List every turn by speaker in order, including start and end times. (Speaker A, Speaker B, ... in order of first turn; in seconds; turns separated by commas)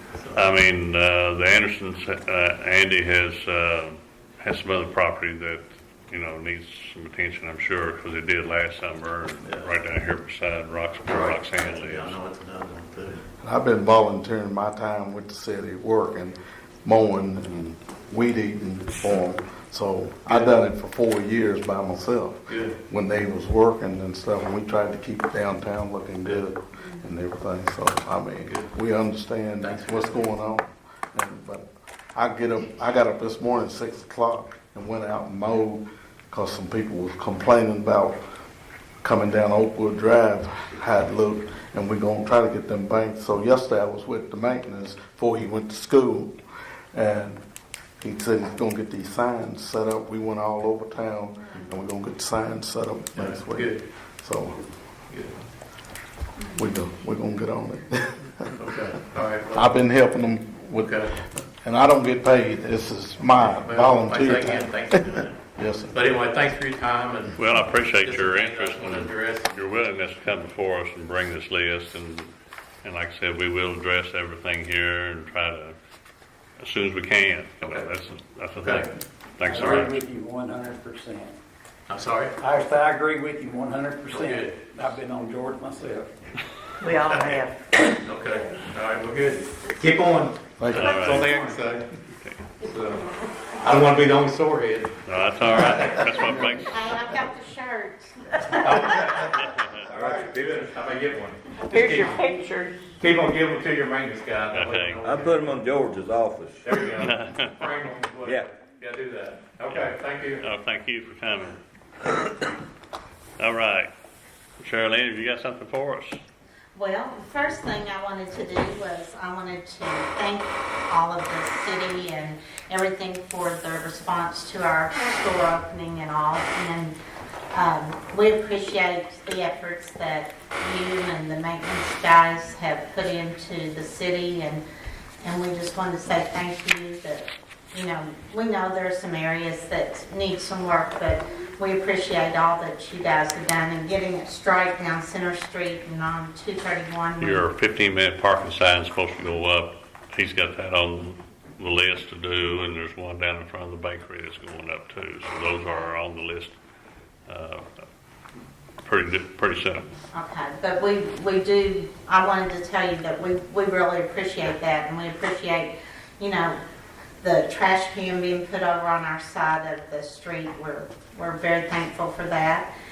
Speaker A: 0.1-0.6, Speaker B: 0.3-12.2, Speaker A: 9.4-9.7, Speaker A: 11.1-13.2, Speaker C: 13.4-38.2, Speaker A: 20.3-20.5, Speaker A: 22.5-22.8, Speaker A: 29.6-30.3, Speaker C: 39.0-46.3, Speaker C: 46.9-47.5, Speaker C: 48.0-54.6, Speaker A: 53.1-53.9, Speaker A: 55.1-55.4, Speaker C: 56.5-58.5, Speaker A: 58.6-59.8, Speaker C: 59.5-66.0, Speaker A: 60.8-61.1, Speaker A: 63.4-65.4, Speaker A: 65.9-67.4, Speaker B: 67.4-72.3, Speaker A: 68.0-69.5, Speaker B: 72.8-75.8, Speaker B: 76.6-80.0, Speaker A: 77.6-77.9, Speaker A: 78.6-78.9, Speaker D: 79.5-81.3, Speaker A: 81.9-82.3, Speaker D: 82.4-86.1, Speaker A: 84.2-84.5, Speaker E: 86.8-87.6, Speaker A: 88.0-91.9, Speaker C: 90.6-91.0, Speaker B: 90.8-91.4, Speaker B: 92.1-92.5, Speaker A: 92.6-93.0, Speaker A: 93.6-96.3, Speaker B: 95.1-96.8, Speaker F: 96.7-99.0, Speaker A: 98.5-102.4, Speaker B: 99.5-99.7, Speaker G: 99.9-100.6, Speaker E: 101.7-102.8, Speaker A: 103.0-105.6, Speaker B: 104.5-105.0, Speaker G: 105.0-106.9, Speaker A: 106.6-110.4, Speaker B: 107.0-107.5, Speaker B: 109.7-111.6, Speaker B: 113.4-113.9, Speaker B: 114.6-116.2, Speaker F: 116.8-127.0, Speaker F: 127.5-134.6, Speaker F: 135.2-147.5, Speaker B: 147.2-156.6, Speaker F: 155.6-155.9, Speaker B: 157.3-157.7, Speaker B: 158.8-159.9, Speaker F: 160.1-166.6, Speaker F: 167.2-172.7